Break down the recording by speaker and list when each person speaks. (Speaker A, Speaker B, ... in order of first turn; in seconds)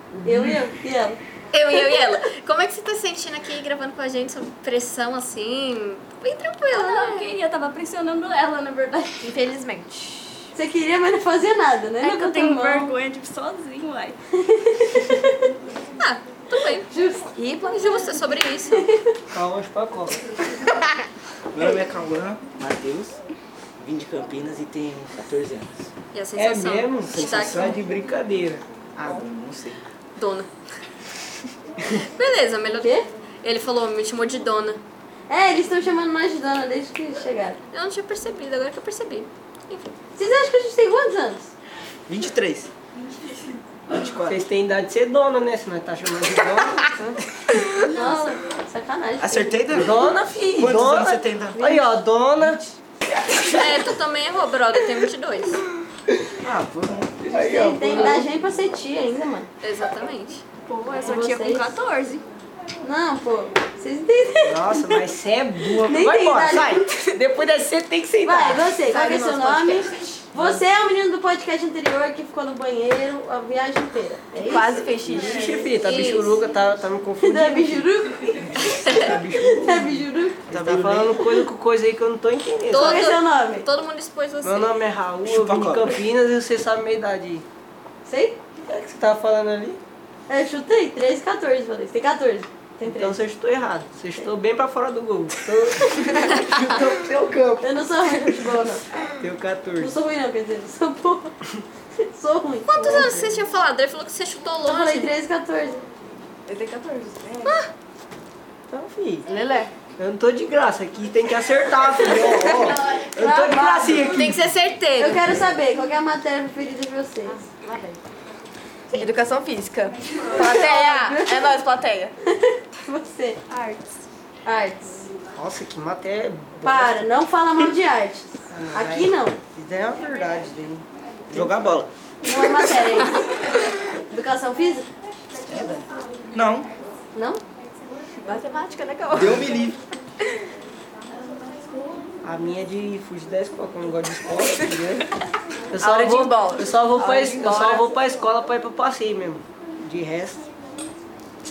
Speaker A: 0.2-0.5, 19.3-20.2, 26.3-28.6, 44.1-47.0, 49.7-52.8, 53.3-53.7, 57.2-58.3, 64.4-68.8, 70.3-70.6, 75.0-78.0, 78.6-83.0, 84.4-87.4, 88.6-89.8, 92.8-97.7, 99.2-100.0, 108.7-109.3, 109.9-114.5, 125.3-127.0, 128.5-130.8, 142.2-145.1, 145.7-150.5
Speaker B: 0.2-1.2, 10.5-12.9, 14.3-15.5, 16.9-17.3, 35.3-37.6, 40.1-41.5, 47.8-49.6, 57.3-59.5, 61.0-61.7, 62.8-65.0, 65.7-66.8, 68.2-74.9, 77.2-78.7, 79.5-80.4, 82.7-83.7, 88.0-88.4, 90.3-93.2, 97.6-98.8, 99.8-101.3, 101.9-103.4, 104.6-105.8, 113.0-114.3, 115.0-117.5, 120.4-121.5, 122.3-123.4, 124.4-125.1, 126.6-129.4, 132.2-133.3, 133.8-134.8, 137.1-137.4
Speaker C: 1.5-7.3, 16.0-16.9, 17.7-18.9, 26.1-27.8, 30.1-30.5, 31.9-34.8, 37.7-39.9, 53.4-55.6, 59.6-60.4, 75.8-76.4, 78.8-79.1, 82.7-84.7, 102.7-105.1, 107.4-107.7, 114.1-115.2
Speaker D: 6.7-9.2, 12.0-14.2, 60.6-62.2, 123.5-123.8
Speaker E: 9.2-10.5, 17.3-18.1, 68.8-70.0, 74.4-75.6, 106.5-107.6, 109.3-109.7, 112.4-113.0, 117.5-118.0, 118.9-122.1, 138.2-139.6, 145.8-147.9
Speaker F: 21.5-23.2, 23.8-25.9, 27.1-27.8, 28.9-29.8, 42.1-42.7, 43.9-44.4, 49.2-51.9, 56.4-57.2, 80.5-81.2, 85.2-85.9, 131.3-131.9, 135.4-136.7, 139.1-139.8